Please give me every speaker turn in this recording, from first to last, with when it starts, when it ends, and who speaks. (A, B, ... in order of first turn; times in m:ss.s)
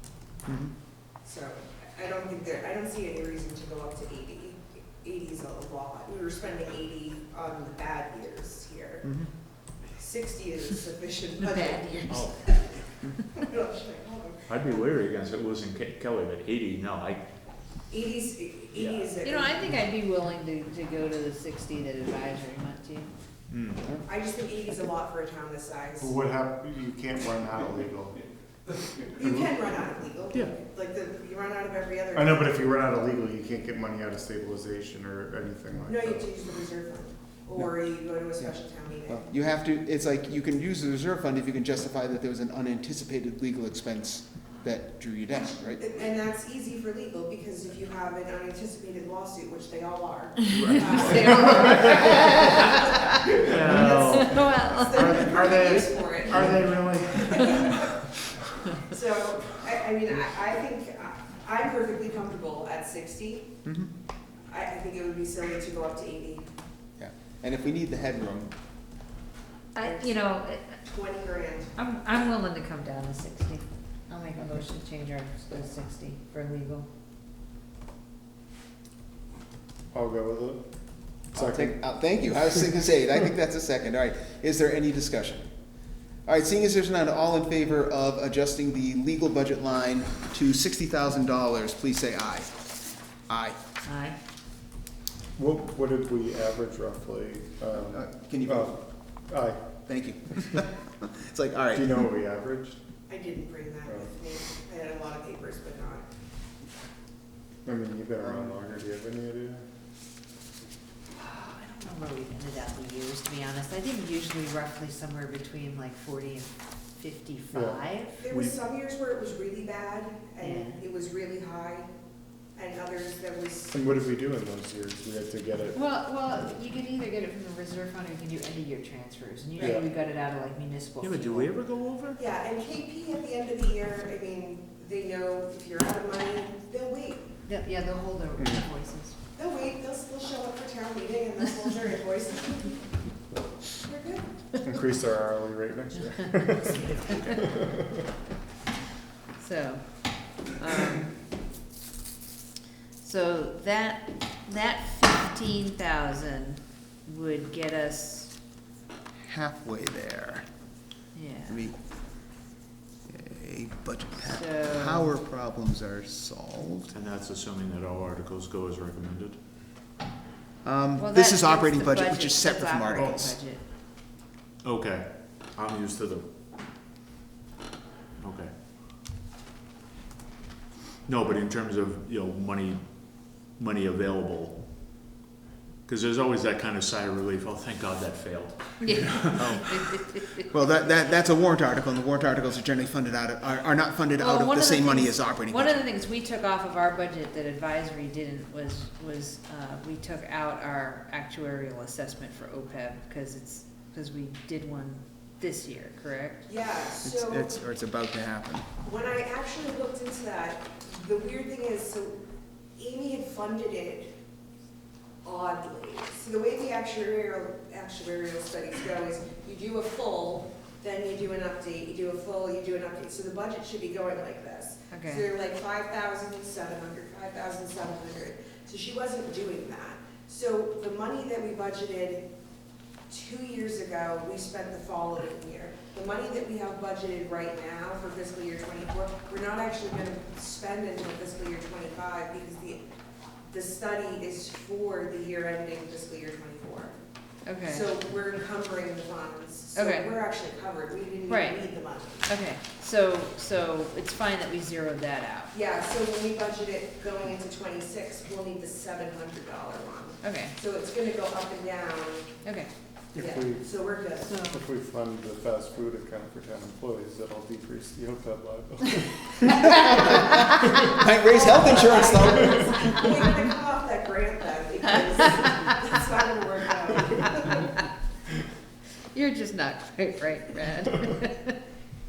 0:00.5-0:00.7 A
0:01.2-0:09.1 B
0:09.9-0:12.3 B
0:11.4-0:12.7 C
0:12.1-0:12.5 D
0:13.4-0:14.5 B
0:14.5-0:17.3 D
0:17.9-0:19.6 B
0:18.8-0:19.1 D
0:19.2-0:23.1 C
0:23.5-0:23.9 D
0:24.0-0:26.1 B
0:26.0-0:28.3 E
0:29.2-0:32.6 B
0:32.2-0:36.3 E
0:35.9-0:39.3 B
0:39.1-0:45.8 A
0:45.8-0:58.1 B
0:50.5-0:51.5 D
0:50.9-0:56.6 C
0:51.4-0:51.6 E
0:53.3-0:54.0 E
0:53.3-0:54.4 D
0:54.9-0:57.9 E
0:58.7-1:03.5 B
1:04.5-1:06.5 B
1:07.0-1:08.6 A
1:09.8-1:10.8 C
1:09.8-1:10.2 B
1:10.8-1:11.7 B
1:11.8-1:16.9 C
1:19.9-1:20.7 E
1:21.3-1:21.8 E
1:21.3-1:25.4 A
1:26.3-1:32.5 A
1:33.3-1:33.6 A
1:33.8-1:34.2 C
1:35.4-1:39.7 E
1:37.7-1:38.7 A
1:39.9-1:41.9 A
1:41.8-1:42.8 E
1:43.1-1:46.1 B
1:43.9-1:44.1 E
1:47.6-1:49.6 E
1:51.1-1:58.2 C
1:57.5-1:57.8 E
1:58.2-2:01.9 B
2:00.4-2:00.8 C
2:02.6-2:03.8 B
2:03.7-2:05.8 E
2:05.8-2:11.5 C
2:09.6-2:10.0 E
2:11.0-2:12.2 D
2:12.2-2:17.4 B
2:17.5-2:19.2 C
2:18.4-2:18.7 E
2:19.4-2:22.8 B
2:23.8-2:24.2 B
2:24.6-2:26.8 E
2:26.2-2:27.5 C
2:26.8-2:27.4 D
2:27.4-2:28.1 E
2:29.4-2:31.2 C
2:33.0-2:38.3 C
2:39.2-2:40.5 A
2:41.1-2:41.6 C
2:41.5-2:41.8 A
2:43.1-2:46.9 A
2:44.2-2:45.1 C
2:46.9-2:49.4 D
2:50.6-2:53.4 A
2:51.0-2:53.6 C
2:54.6-2:56.3 D
2:58.2-2:58.5 D
3:01.1-3:02.8 D
3:03.3-3:04.7 D
3:05.9-3:09.6 D
3:08.8-3:10.5 C
3:09.4-3:09.7 A
3:10.5-3:15.8 A
3:14.2-3:26.5 C
3:26.5-3:27.5 B
3:27.0-3:28.7 A
3:28.8-3:32.2 B
3:32.8-3:34.1 B
3:35.2-3:52.3 B
3:44.9-3:45.3 C
3:53.1-4:02.8 B
4:03.5-4:07.0 B
4:07.4-4:07.9 C
4:07.7-4:12.3 B
4:09.8-4:10.2 C
4:11.3-4:11.7 C
4:12.2-4:15.6 C
4:15.5-4:22.3 B
4:20.2-4:20.6 C
4:22.4-4:22.7 C
4:23.1-4:23.9 E
4:23.2-4:24.3 B
4:24.2-4:24.6 C
4:24.5-4:30.2 E
4:29.5-4:32.8 A
4:31.2-4:37.7 B
4:39.1-4:41.6 C